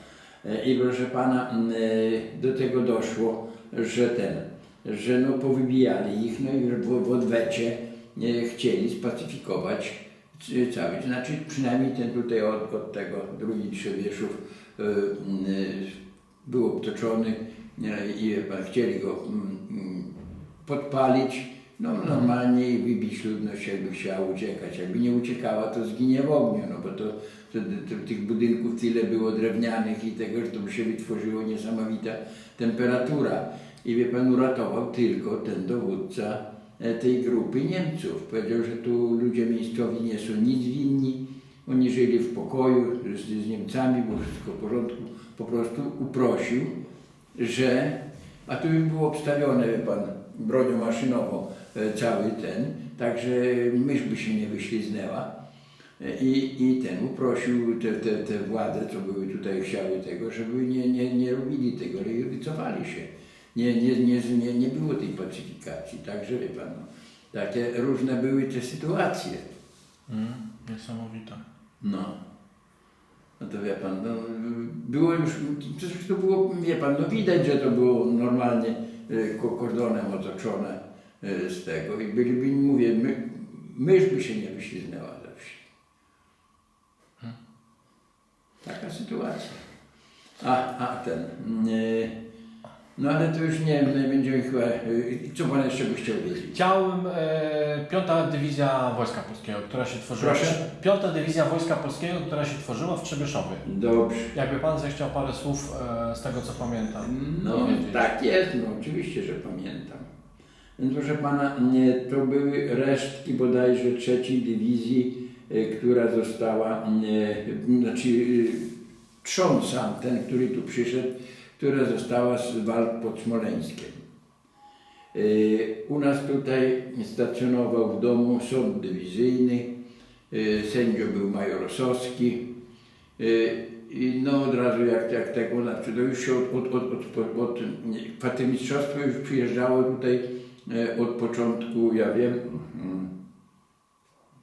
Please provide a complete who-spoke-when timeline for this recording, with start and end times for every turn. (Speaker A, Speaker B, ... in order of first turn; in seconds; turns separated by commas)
Speaker A: 0.4-46.7, Speaker A: 47.3-55.3, Speaker A: 56.0-69.4, Speaker B: 70.1-71.4, Speaker A: 71.8-72.1, Speaker A: 73.4-85.6, Speaker A: 88.6-89.6, Speaker A: 90.4-92.1, Speaker A: 93.0-96.5, Speaker B: 96.5-103.6, Speaker A: 100.2-100.6, Speaker A: 103.6-104.3, Speaker B: 104.3-108.1, Speaker A: 107.0-110.1, Speaker A: 110.8-118.7, Speaker A: 119.2-124.0, Speaker A: 125.1-129.7, Speaker A: 130.3-132.4, Speaker A: 133.2-143.1